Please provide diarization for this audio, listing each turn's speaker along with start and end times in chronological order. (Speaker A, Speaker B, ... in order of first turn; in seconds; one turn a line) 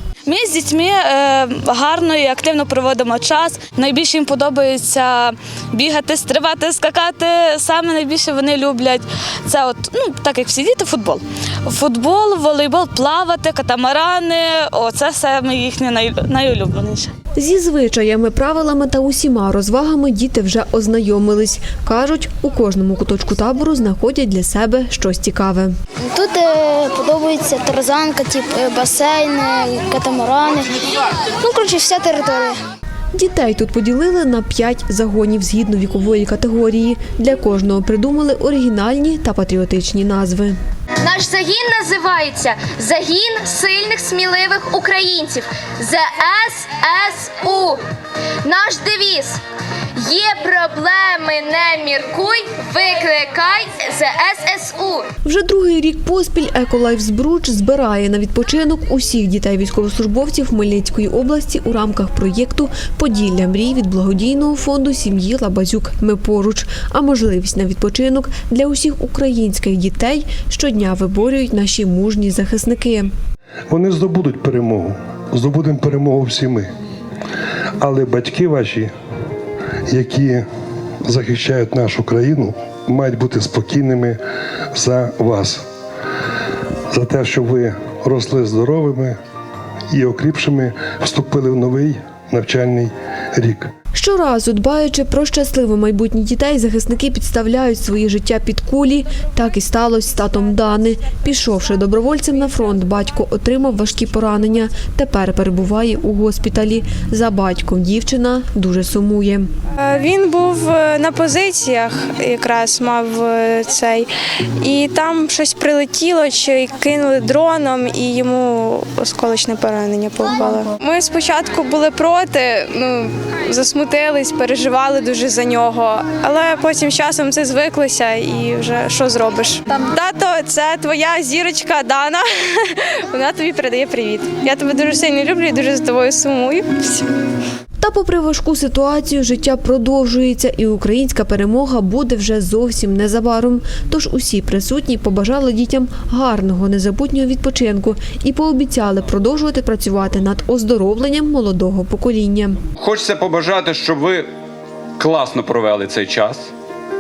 Speaker A: 0.3-17.1
Speaker B: 17.4-25.7
Speaker C: 26.1-30.7
Speaker C: 31.4-32.6
Speaker B: 33.1-40.6
Speaker D: 41.0-47.8
Speaker D: 48.4-49.4
Speaker D: 50.0-55.1
Speaker B: 55.2-73.1
Speaker E: 73.7-76.7
Speaker E: 77.8-78.9
Speaker E: 79.9-80.5
Speaker E: 81.0-84.2
Speaker E: 84.7-85.6
Speaker E: 86.9-89.2
Speaker E: 89.9-93.7
Speaker B: 94.0-109.5
Speaker F: 109.9-114.1
Speaker F: 114.6-137.1
Speaker B: 137.8-152.6
Speaker G: 152.8-154.3
Speaker G: 155.0-156.5